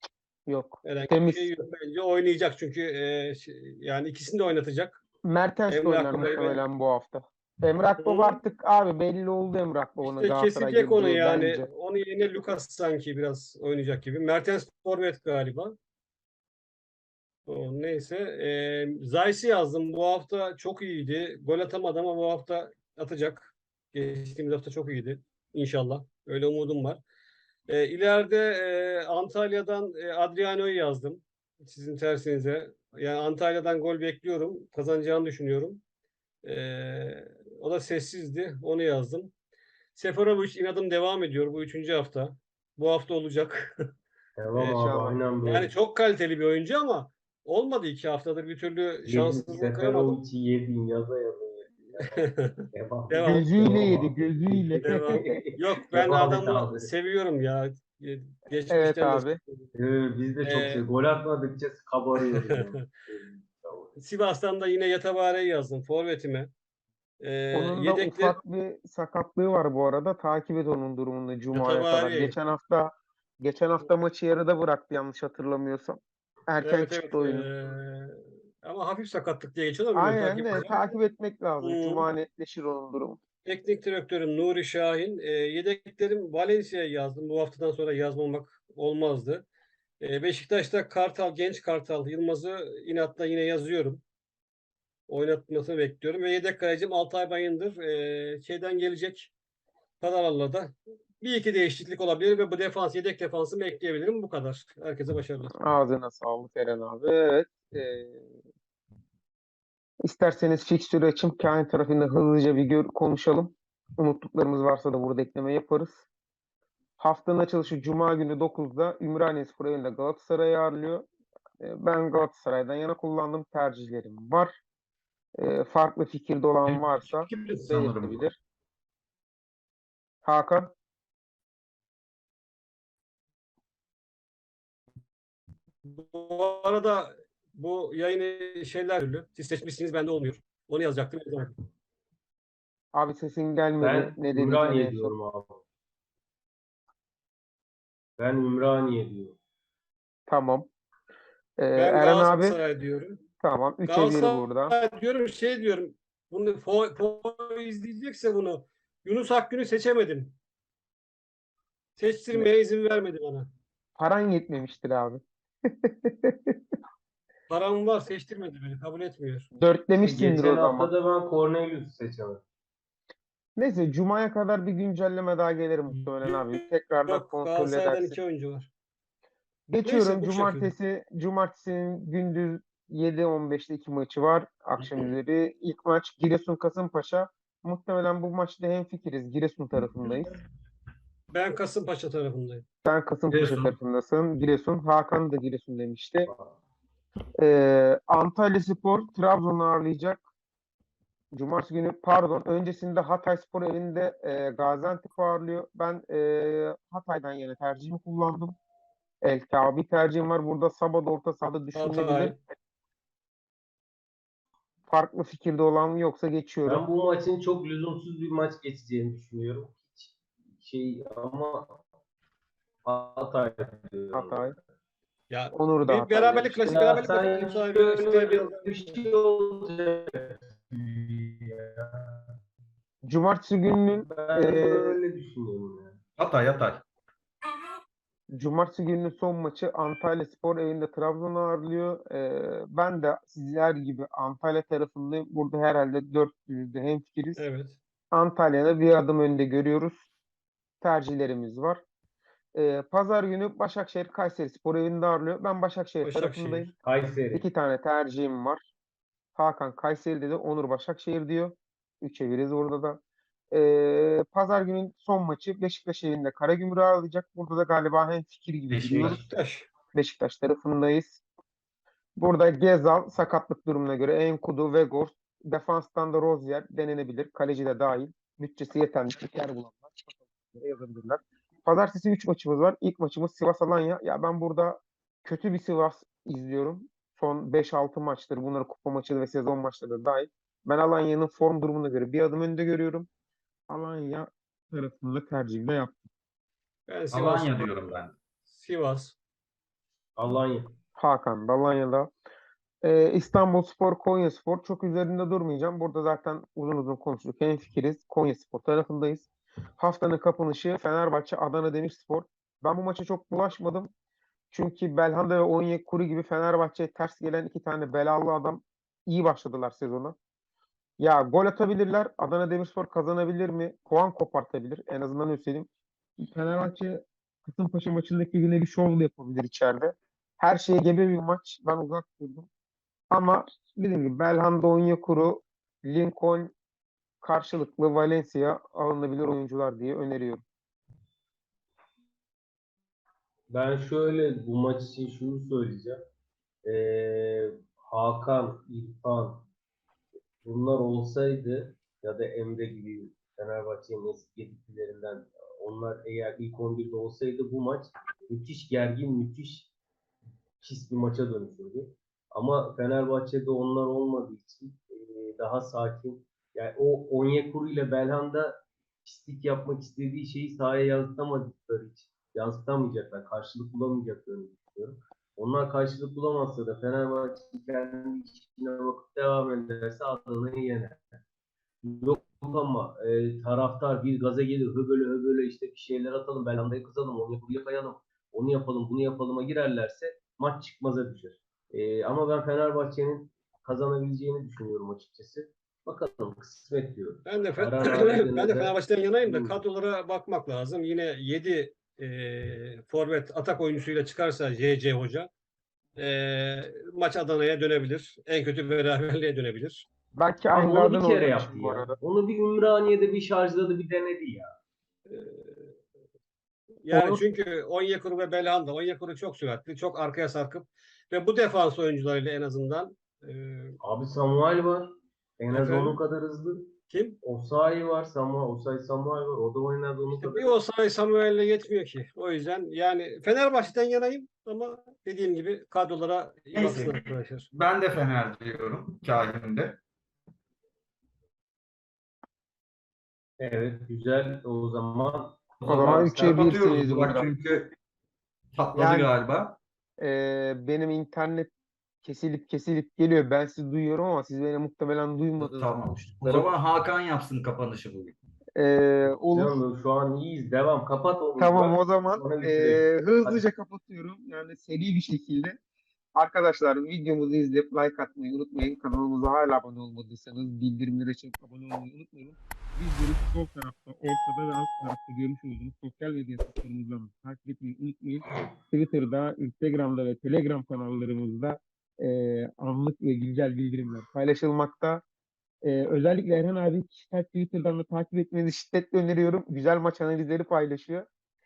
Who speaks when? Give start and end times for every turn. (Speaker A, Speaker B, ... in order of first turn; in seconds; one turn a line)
Speaker A: 0.5-1.5
Speaker B: 0.8-5.0
Speaker A: 5.2-11.7
Speaker B: 5.7-6.6
Speaker B: 8.0-8.4
Speaker B: 10.0-15.8
Speaker B: 17.5-27.0
Speaker B: 27.7-35.8
Speaker B: 36.4-39.3
Speaker B: 40.0-43.9
Speaker C: 44.4-45.7
Speaker A: 44.6-45.3
Speaker B: 45.5-50.2
Speaker C: 49.1-56.9
Speaker B: 52.0-53.6
Speaker A: 53.2-55.4
Speaker B: 54.8-59.7
Speaker A: 58.7-59.4
Speaker C: 59.8-64.0
Speaker B: 60.4-60.8
Speaker B: 62.2-62.9
Speaker B: 64.0-66.5
Speaker B: 67.2-68.4
Speaker A: 67.5-77.5
Speaker B: 71.5-72.4
Speaker B: 76.6-80.9
Speaker A: 80.0-83.2
Speaker B: 81.6-82.1
Speaker B: 83.5-89.5
Speaker B: 90.0-94.0
Speaker B: 95.1-99.3
Speaker B: 100.0-105.5
Speaker A: 105.6-108.3
Speaker A: 110.0-116.0
Speaker A: 117.0-121.1
Speaker A: 121.6-124.6
Speaker A: 125.4-128.4
Speaker D: 126.7-128.3
Speaker A: 130.2-130.7
Speaker B: 135.9-141.6
Speaker A: 142.9-145.1
Speaker C: 143.8-145.7
Speaker C: 148.2-149.4
Speaker A: 150.3-150.7
Speaker A: 151.6-152.6
Speaker B: 151.8-153.2
Speaker A: 153.4-154.8
Speaker B: 153.9-160.4
Speaker B: 162.0-163.5
Speaker A: 164.0-166.6
Speaker B: 167.5-169.5
Speaker A: 169.6-170.9
Speaker C: 170.0-172.4
Speaker A: 173.6-178.2
Speaker B: 176.2-178.7
Speaker A: 179.7-190.4
Speaker B: 179.8-180.7
Speaker B: 191.3-192.6
Speaker A: 192.8-196.3
Speaker D: 193.3-193.7
Speaker C: 196.3-196.6
Speaker A: 197.4-200.2
Speaker A: 201.3-208.6
Speaker A: 209.2-212.4
Speaker B: 211.8-212.4
Speaker A: 214.9-216.8
Speaker C: 216.7-221.8
Speaker C: 222.8-224.5
Speaker A: 224.1-224.6
Speaker B: 225.3-228.9
Speaker A: 225.5-226.8
Speaker C: 226.7-232.3
Speaker A: 233.0-235.0
Speaker C: 233.9-236.0
Speaker D: 236.2-236.8
Speaker A: 238.3-247.4
Speaker B: 247.4-247.8
Speaker A: 248.1-250.0
Speaker A: 250.8-251.8
Speaker A: 252.6-256.7
Speaker B: 256.0-256.8
Speaker C: 256.8-257.4
Speaker A: 257.3-258.6
Speaker A: 259.4-263.0
Speaker A: 263.5-269.2
Speaker D: 268.7-269.2
Speaker C: 269.0-269.3
Speaker B: 269.1-269.7
Speaker A: 269.9-271.2
Speaker A: 272.2-293.1
Speaker A: 293.7-295.9
Speaker B: 296.9-297.7
Speaker D: 297.1-298.2
Speaker B: 298.5-299.2
Speaker C: 300.2-300.8
Speaker A: 301.0-302.1
Speaker A: 302.8-309.3
Speaker A: 309.8-313.9
Speaker A: 314.5-320.1
Speaker A: 321.0-325.7
Speaker A: 326.2-332.5
Speaker A: 333.1-336.5
Speaker A: 337.2-340.4
Speaker C: 343.5-346.0
Speaker C: 346.6-349.5
Speaker C: 350.4-359.7
Speaker C: 360.6-381.1
Speaker C: 381.8-399.6
Speaker B: 397.3-405.3
Speaker B: 406.0-409.9
Speaker A: 410.2-412.0
Speaker C: 410.5-414.6
Speaker B: 415.1-415.7
Speaker B: 416.9-423.8
Speaker C: 416.9-417.2
Speaker C: 423.8-430.5
Speaker B: 425.5-426.0
Speaker B: 426.9-427.2
Speaker B: 430.2-437.5
Speaker D: 436.5-439.8
Speaker C: 443.4-446.7
Speaker A: 445.7-447.3
Speaker D: 446.1-447.8
Speaker D: 448.5-449.6
Speaker A: 448.8-449.1
Speaker A: 450.0-451.5
Speaker A: 452.0-456.5
Speaker D: 455.4-458.2
Speaker A: 458.6-459.6
Speaker C: 459.3-463.4
Speaker A: 461.4-465.6
Speaker A: 466.2-485.0
Speaker A: 485.6-491.1